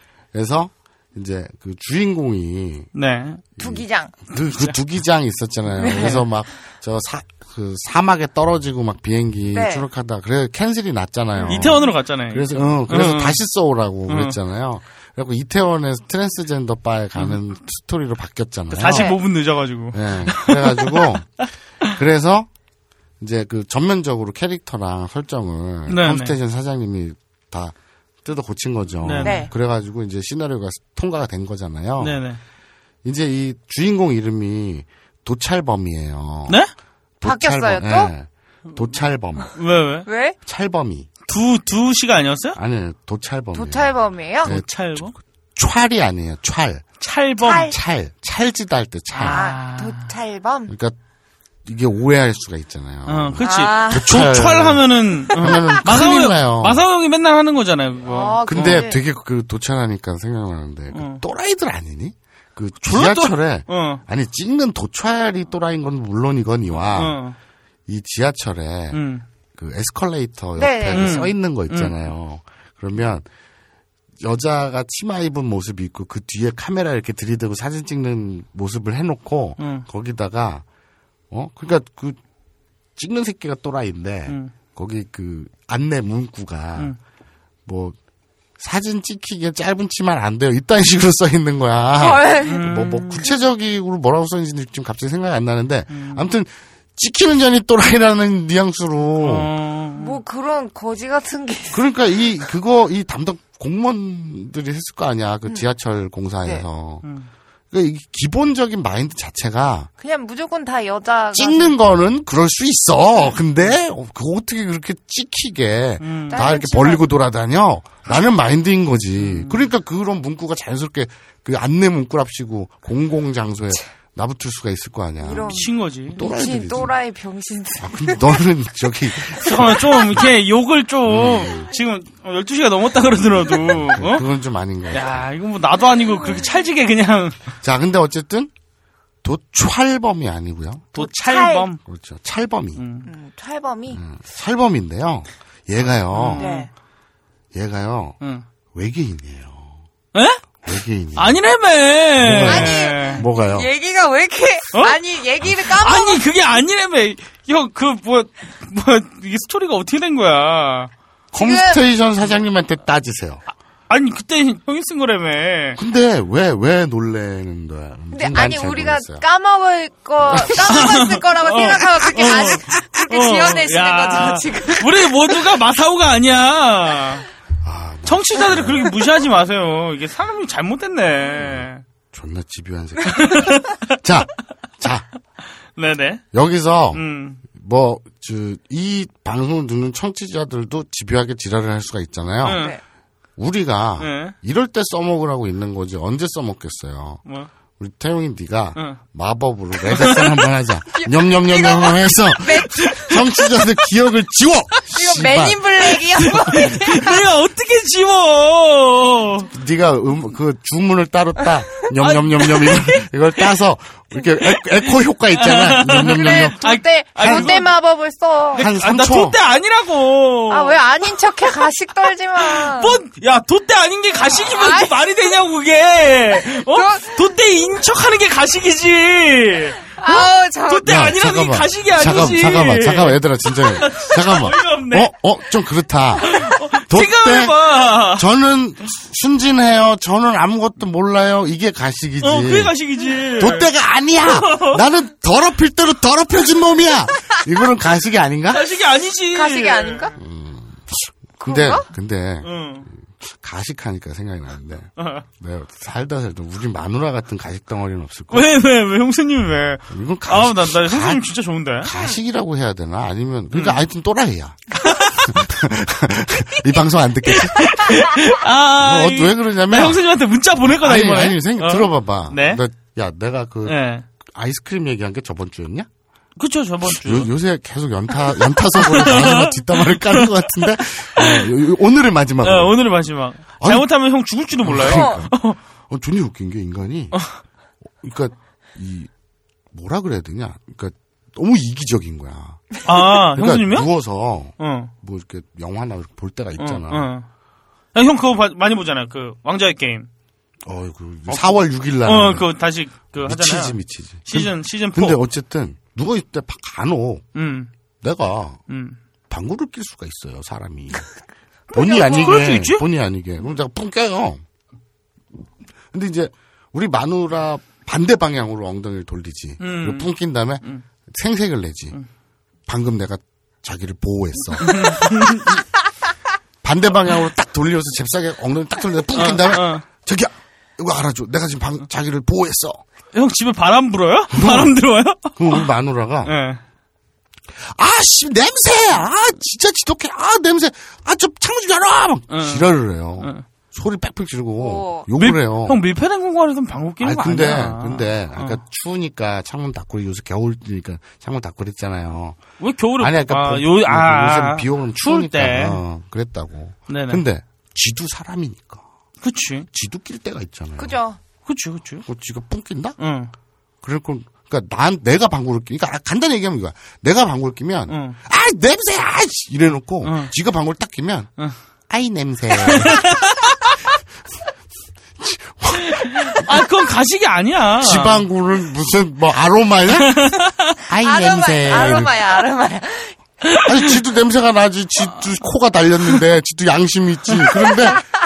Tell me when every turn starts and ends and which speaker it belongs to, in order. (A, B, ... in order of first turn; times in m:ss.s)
0:00.3-0:02.9 A
0:02.9-0:03.4 B
0:03.6-0:04.1 C
0:03.6-0:19.2 A
0:05.8-0:06.0 C
0:05.8-0:06.2 B
0:09.5-0:09.8 C
0:11.4-0:11.7 C
0:11.5-0:13.4 B
0:14.1-0:14.4 B
0:18.7-0:21.1 B
0:18.9-0:19.2 C
0:19.9-0:22.5 A
0:23.2-0:32.2 A
0:25.9-0:26.3 B
0:29.0-0:29.4 B
0:29.2-0:29.5 C
0:32.0-0:32.4 B
0:33.0-0:36.6 A
0:37.2-0:39.6 A
0:37.2-0:38.1 C
0:39.5-0:40.1 B
0:40.0-0:40.4 C
0:40.4-0:41.1 A
0:41.3-0:42.6 B
0:42.5-0:46.8 A
0:43.5-0:44.5 C
0:44.4-0:45.1 B
0:47.0-0:47.7 B
0:47.4-0:47.7 C
0:47.5-0:49.5 A
0:49.1-0:50.0 B
0:49.2-0:50.7 C
0:50.7-0:51.0 A
0:51.6-0:56.8 A
0:53.1-0:58.8 B
0:53.4-0:54.1 C
0:58.0-0:59.0 C
0:58.5-1:07.2 A
1:00.9-1:01.2 B
1:02.8-1:04.0 B
1:06.9-1:07.4 B
1:07.9-1:09.0 A
1:08.9-1:09.2 B
1:09.5-1:13.2 A
1:10.6-1:11.2 C
1:10.9-1:12.0 B
1:14.2-1:20.6 A
1:19.6-1:19.8 B
1:21.3-1:22.2 A
1:23.0-1:26.9 A
1:24.3-1:24.5 B
1:27.6-1:28.0 A
1:28.6-1:39.5 A
1:32.0-1:32.9 C
1:32.4-1:33.2 B
1:35.9-1:36.3 B
1:39.2-1:40.2 B
1:39.9-1:41.9 C
1:41.7-1:47.0 A
1:47.0-1:47.3 B
1:47.7-1:49.9 A
1:50.0-1:51.7 C
1:51.3-2:06.9 A
1:56.0-1:56.4 B
1:56.3-1:57.1 C
1:59.2-1:59.6 B
2:05.2-2:08.2 C
2:05.5-2:06.2 B
2:07.8-2:10.3 A
2:09.4-2:14.2 B
2:11.0-2:11.7 A
2:12.9-2:15.2 A
2:14.9-2:17.5 B
2:17.6-2:18.5 A
2:19.2-2:20.9 A
2:20.9-2:21.8 B
2:21.0-2:21.7 C
2:21.8-2:22.8 A
2:22.8-2:23.1 B
2:23.0-2:24.0 C
2:23.9-2:26.5 A
2:26.1-2:26.7 B
2:26.4-2:26.7 C
2:27.5-2:28.2 A
2:28.7-2:29.7 A
2:30.1-2:30.4 B
2:30.6-2:31.4 A
2:31.2-2:33.2 B
2:32.2-2:33.7 A
2:32.4-2:36.2 C
2:35.6-2:40.9 B
2:41.3-2:43.4 A
2:41.3-2:41.8 C
2:43.9-2:45.8 B
2:45.8-2:49.2 A
2:48.1-2:55.3 C
2:50.3-2:50.8 A
2:50.4-2:57.2 B
2:57.6-2:58.9 A
2:58.0-3:01.8 B
3:01.3-3:05.1 A
3:03.1-3:04.0 B
3:05.8-3:06.2 B
3:06.3-3:12.7 A
3:06.9-3:07.4 B
3:12.4-3:12.7 B
3:12.5-3:12.8 C
3:13.4-3:17.2 A
3:14.0-3:14.3 B
3:17.8-3:25.7 A
3:19.9-3:20.5 B
3:20.9-3:23.1 C
3:22.7-3:23.2 B
3:24.9-3:27.2 C
3:26.3-3:29.5 B
3:29.5-3:37.6 A
3:32.0-3:33.0 B
3:34.5-3:37.7 B
3:36.0-3:38.6 C
3:38.5-3:40.8 B
3:38.6-3:39.4 A
3:40.5-3:43.0 C
3:42.4-3:55.1 B
3:44.4-3:44.9 C
3:46.6-3:47.1 C
3:50.0-3:50.9 C
3:50.8-4:02.7 A
3:56.2-3:58.2 B
4:02.2-4:03.7 B
4:03.4-4:08.6 A
4:04.2-4:04.8 B
4:08.5-4:10.1 B
4:09.3-4:10.1 C
4:10.2-4:18.5 A
4:11.4-4:11.8 C
4:12.4-4:12.9 B
4:15.0-4:15.2 B
4:18.3-4:21.9 B
4:19.9-4:21.2 A
4:21.8-4:30.0 A
4:23.5-4:23.8 B
4:24.8-4:25.4 B
4:27.3-4:32.6 B
4:30.6-4:35.9 A
4:33.6-4:34.0 B
4:36.4-4:37.3 B
4:36.8-4:42.8 A
4:38.7-4:40.3 B
4:41.2-4:41.5 B
4:42.4-4:45.6 B
4:43.6-4:43.9 A
4:44.5-4:47.2 A
4:44.8-4:45.2 C
4:48.0-4:49.1 A
4:49.7-4:57.1 A
4:52.8-4:53.9 B
4:54.6-4:54.9 B
4:56.6-4:57.2 B
4:57.9-5:00.1 B
5:00.6-5:02.5 A
5:01.3-5:05.2 B
5:03.2-5:07.2 A
5:07.3-5:07.7 B
5:08.0-5:08.6 A
5:08.7-5:09.0 B
5:09.3-5:11.1 A
5:11.7-5:14.4 A
5:11.7-5:12.8 B
5:15.9-5:22.0 A
5:19.6-5:20.1 B
5:22.7-5:25.5 A
5:24.6-5:25.6 B
5:26.6-5:32.8 A
5:29.1-5:29.8 B
5:33.1-5:35.6 B
5:34.3-5:34.8 A
5:35.4-5:36.3 A
5:36.2-5:36.6 B
5:37.6-5:45.8 A
5:42.3-5:43.4 B
5:44.6-5:45.1 C
5:45.2-5:48.6 B
5:47.0-5:52.4 A
5:52.6-5:55.8 B
5:53.0-5:58.8 A
5:56.9-5:57.2 B
5:59.2-5:59.7 B
5:59.7-6:01.0 A
6:00.8-6:01.2 C
6:01.4-6:02.0 B
6:02.0-6:03.0 A
6:03.0-6:03.3 B
6:03.8-6:11.3 A
6:07.9-6:08.2 B
6:10.0-6:10.3 B
6:11.9-6:13.2 A
6:12.6-6:13.7 B
6:15.2-6:16.7 A
6:15.8-6:18.2 B
6:17.8-6:22.1 A
6:19.9-6:20.7 B
6:21.0-6:23.1 C
6:23.6-6:28.0 A